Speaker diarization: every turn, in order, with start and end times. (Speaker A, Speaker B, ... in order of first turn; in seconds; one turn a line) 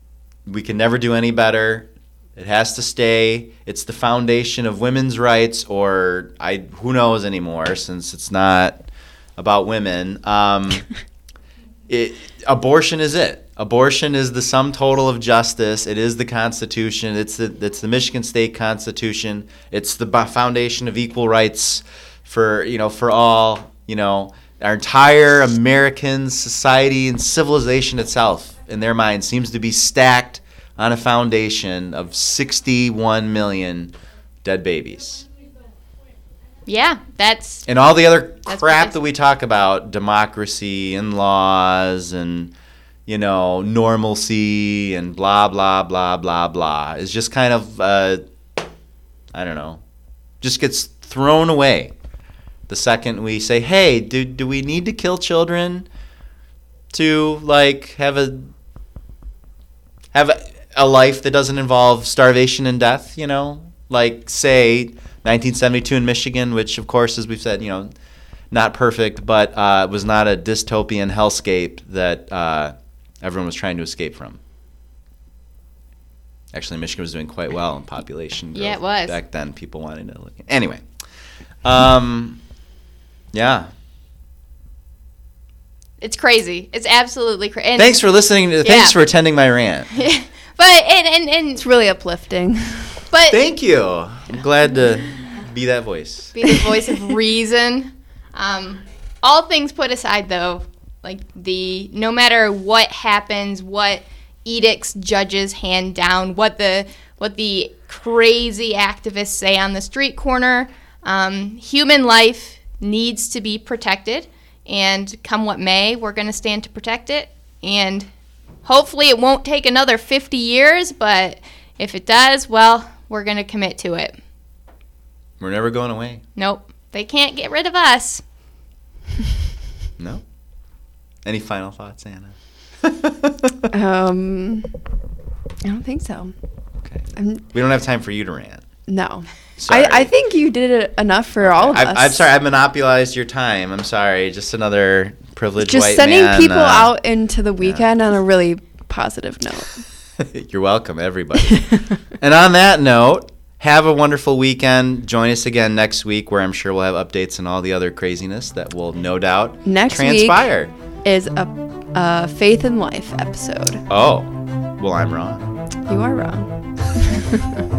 Speaker A: 0.5-8.8
Speaker A: 9.4-10.8
Speaker A: 11.9-33.9
Speaker A: 34.4-35.2
Speaker B: 36.6-37.6
Speaker A: 37.6-42.5
Speaker B: 38.5-38.9
Speaker A: 43.1-48.2
Speaker A: 49.3-49.8
Speaker A: 50.4-51.9
Speaker A: 52.7-55.9
Speaker A: 56.9-58.5
Speaker A: 60.1-67.9
Speaker A: 68.5-74.4
Speaker A: 76.5-80.8
Speaker B: 78.5-79.2
Speaker A: 81.6-82.4
Speaker A: 83.3-83.7
Speaker B: 86.0-87.9
Speaker A: 87.8-89.9
Speaker B: 88.6-88.9
Speaker B: 89.9-91.6
Speaker C: 91.6-93.0
Speaker B: 93.1-93.4
Speaker A: 93.3-96.5
Speaker B: 96.3-118.1
Speaker B: 118.6-124.2
Speaker A: 125.4-126.2
Speaker B: 126.3-128.2
Speaker A: 130.0-130.2
Speaker A: 131.2-133.7
Speaker C: 133.7-134.7
Speaker C: 135.6-136.3
Speaker A: 136.8-138.6
Speaker C: 137.2-137.4
Speaker C: 138.9-142.2
Speaker A: 139.6-140.1
Speaker A: 141.4-146.9
Speaker C: 145.6-149.8
Speaker A: 150.2-160.7
Speaker C: 159.6-160.5
Speaker C: 161.0-163.8
Speaker A: 163.9-165.4
Speaker C: 165.9-167.6